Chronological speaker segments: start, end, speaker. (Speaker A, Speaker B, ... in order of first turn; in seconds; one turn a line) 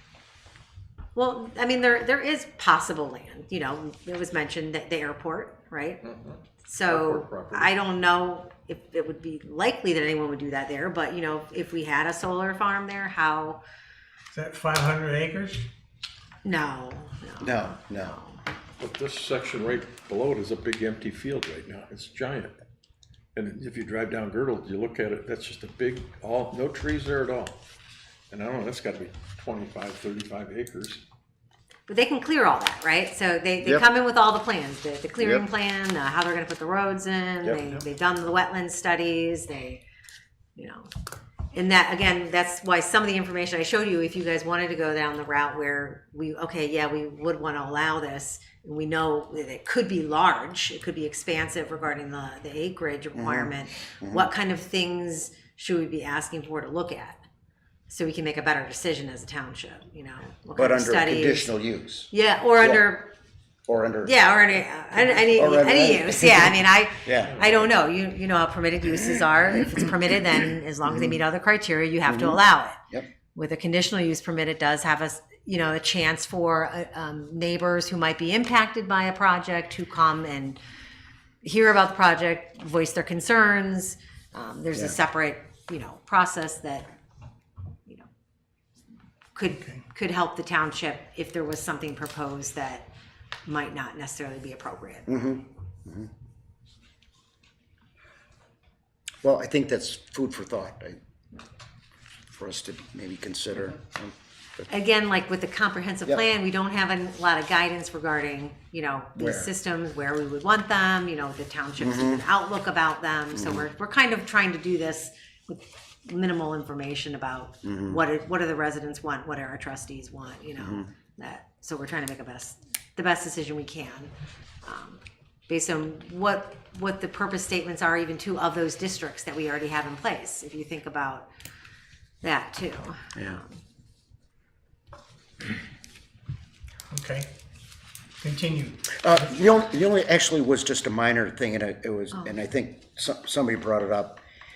Speaker A: 1.1-6.0
Speaker B: 6.0-7.7
Speaker A: 6.7-13.6
Speaker C: 14.3-15.7
Speaker A: 16.4-18.4
Speaker D: 17.4-18.2
Speaker B: 18.8-22.5
Speaker B: 23.4-27.6
Speaker B: 28.3-31.0
Speaker A: 31.9-39.8
Speaker D: 33.6-33.9
Speaker D: 35.2-35.5
Speaker D: 37.4-37.8
Speaker A: 40.6-40.9
Speaker A: 41.5-57.2
Speaker D: 53.1-54.3
Speaker A: 57.9-61.5
Speaker D: 60.6-62.8
Speaker A: 62.1-63.1
Speaker D: 63.7-64.2
Speaker A: 64.0-72.8
Speaker D: 64.9-67.4
Speaker B: 67.3-67.7
Speaker D: 70.8-71.2
Speaker D: 72.1-73.1
Speaker A: 73.3-80.6
Speaker A: 81.4-86.9
Speaker A: 89.3-92.9
Speaker A: 93.5-95.2
Speaker D: 95.1-96.1
Speaker D: 99.2-101.0
Speaker D: 102.3-104.1
Speaker A: 104.7-131.3
Speaker D: 109.2-109.5
Speaker D: 111.8-112.2
Speaker D: 113.3-113.7
Speaker D: 117.6-118.0
Speaker D: 120.6-120.9
Speaker A: 132.2-133.5
Speaker D: 133.2-133.4
Speaker C: 136.9-137.3
Speaker C: 138.2-139.1
Speaker D: 139.0-144.2
Speaker A: 142.1-142.4